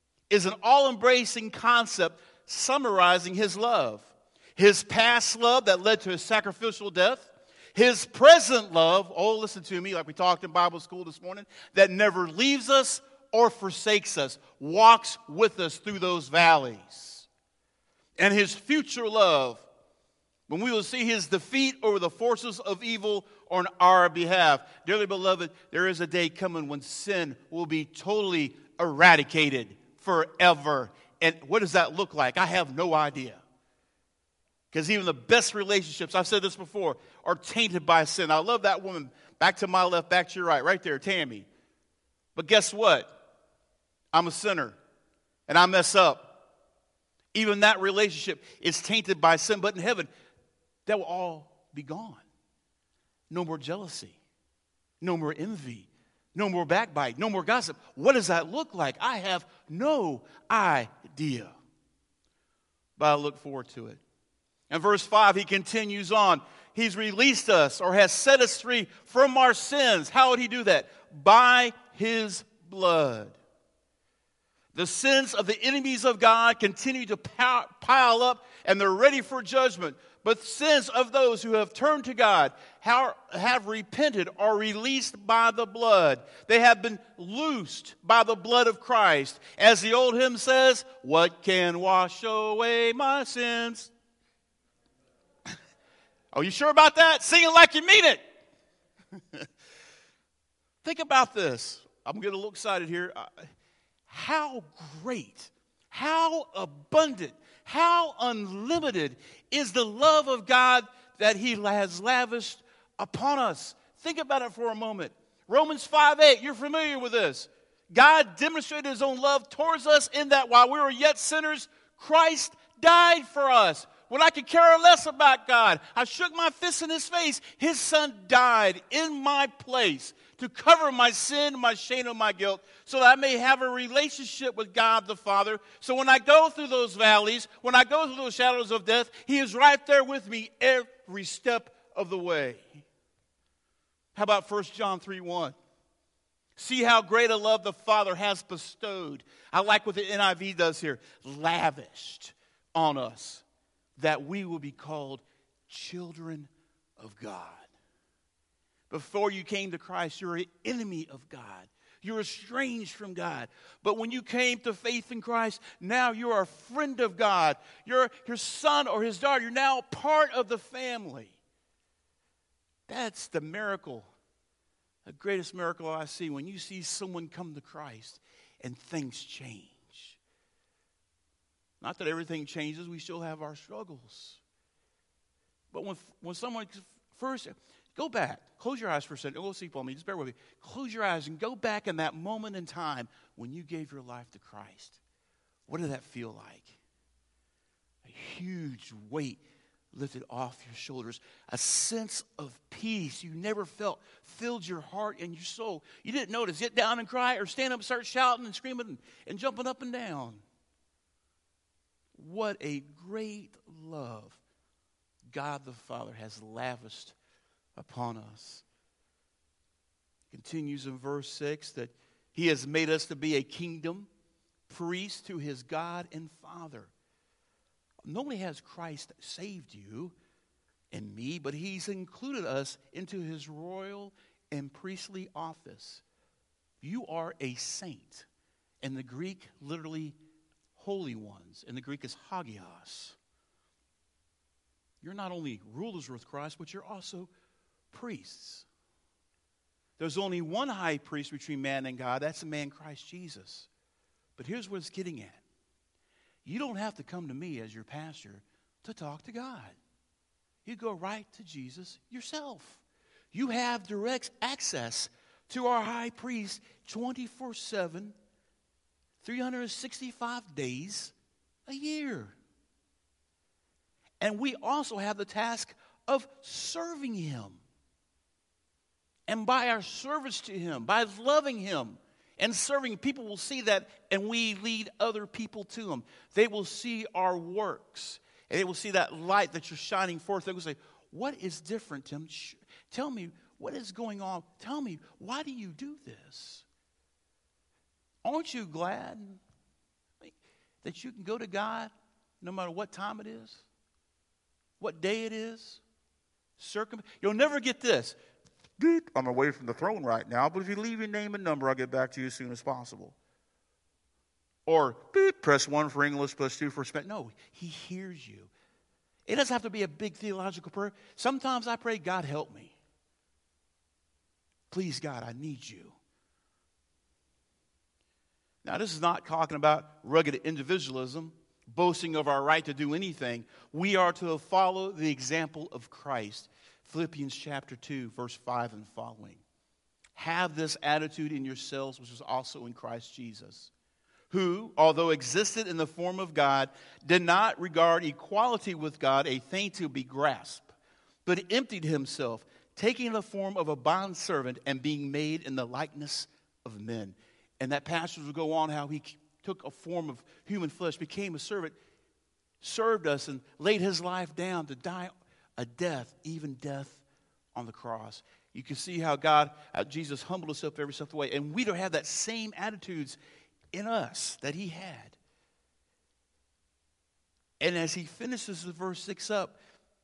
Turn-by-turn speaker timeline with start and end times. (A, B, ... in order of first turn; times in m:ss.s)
0:00.3-0:17.3 A
0:18.2-0:19.7 A
0:20.5-0:33.4 A
0:34.7-0:41.5 A
0:42.4-0:43.2 A
0:44.1-0:44.8 A
0:45.5-0:46.4 A
0:47.3-0:50.1 A
0:50.9-0:52.2 A
0:53.3-0:54.2 A
0:55.0-1:01.5 A
1:03.0-1:04.0 A
1:04.7-1:13.4 A
1:14.7-1:33.9 A
1:36.3-1:38.2 A
1:40.8-1:43.5 A
1:44.1-2:22.9 A
2:24.2-2:25.6 A
2:26.6-2:33.4 A
2:34.0-2:37.7 A
2:38.9-2:51.4 A
2:52.9-2:54.1 A
2:55.1-3:00.2 A
3:01.8-3:04.4 A
3:05.7-3:15.0 A
3:15.7-3:16.8 A
3:18.0-3:19.4 A
3:19.9-3:30.4 A
3:32.2-3:34.4 A
3:35.3-3:37.2 A
3:37.8-3:38.6 A
3:40.3-3:44.1 A
3:44.7-3:46.9 A
3:48.0-3:50.2 A
3:50.9-3:56.0 A
3:56.8-3:58.3 A
3:58.8-4:00.2 A
4:00.8-4:03.2 A
4:05.0-4:07.3 A
4:07.9-4:08.7 A
4:10.0-4:13.7 A
4:14.4-4:15.4 A
4:16.4-4:19.8 A
4:20.6-4:28.2 A
4:29.2-4:31.1 A
4:31.7-4:32.4 A
4:34.2-4:37.6 A
4:39.3-4:56.7 A
4:58.2-4:59.4 A
5:00.2-5:01.9 A
5:02.4-5:03.6 A
5:04.8-5:05.8 A
5:06.6-5:08.2 A
5:08.8-5:13.2 A
5:14.7-5:18.5 A
5:19.3-5:22.8 A
5:24.7-5:26.0 A
5:28.6-5:39.4 A
5:40.2-5:43.7 A
5:44.3-5:50.7 A
5:51.2-6:01.8 A
6:02.6-6:07.0 A
6:07.6-6:13.2 A
6:13.7-6:15.2 A
6:17.6-6:19.6 A